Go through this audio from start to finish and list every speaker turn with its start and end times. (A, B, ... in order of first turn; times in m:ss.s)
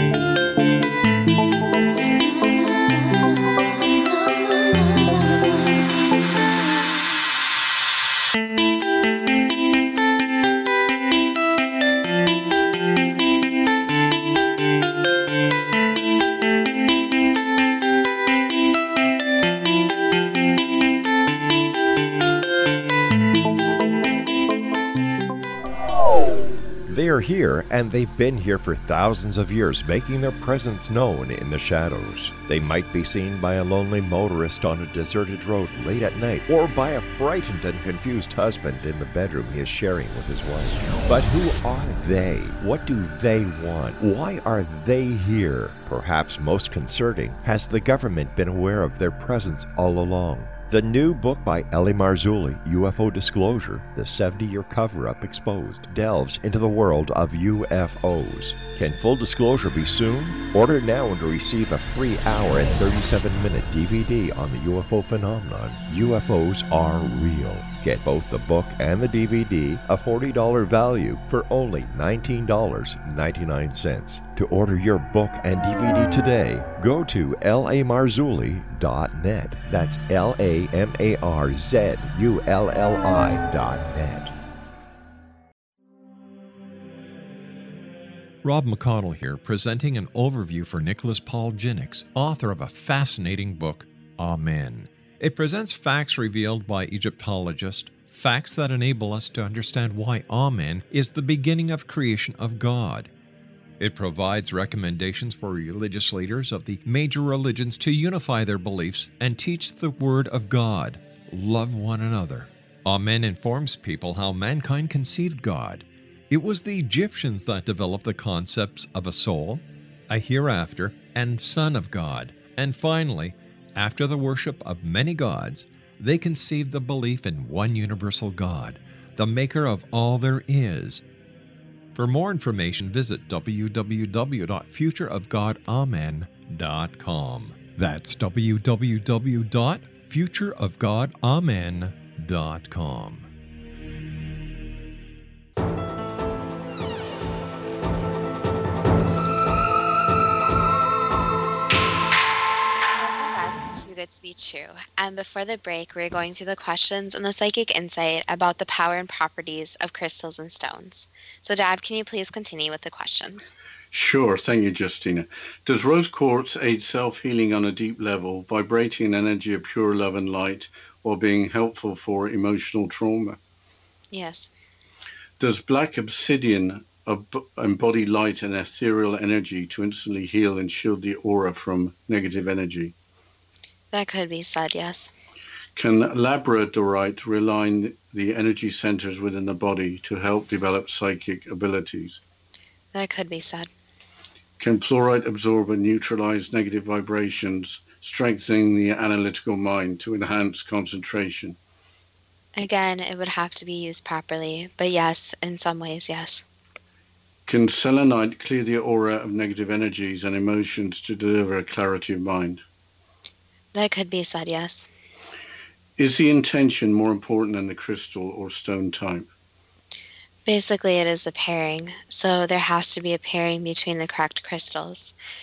0:26.9-1:24.3 A
1:28.4-1:43.1 B
1:43.8-2:11.0 B
2:11.9-2:23.3 B
2:33.0-2:43.5 C
2:43.9-2:53.4 D
2:54.1-2:54.5 C
2:55.4-3:02.9 D
3:03.9-3:05.1 C
3:05.8-3:12.2 D
3:12.9-3:13.7 C
3:14.6-3:21.6 D
3:22.6-3:26.4 C
3:27.5-3:32.6 D
3:33.7-3:34.9 C
3:36.0-3:39.3 D
3:40.4-3:45.1 C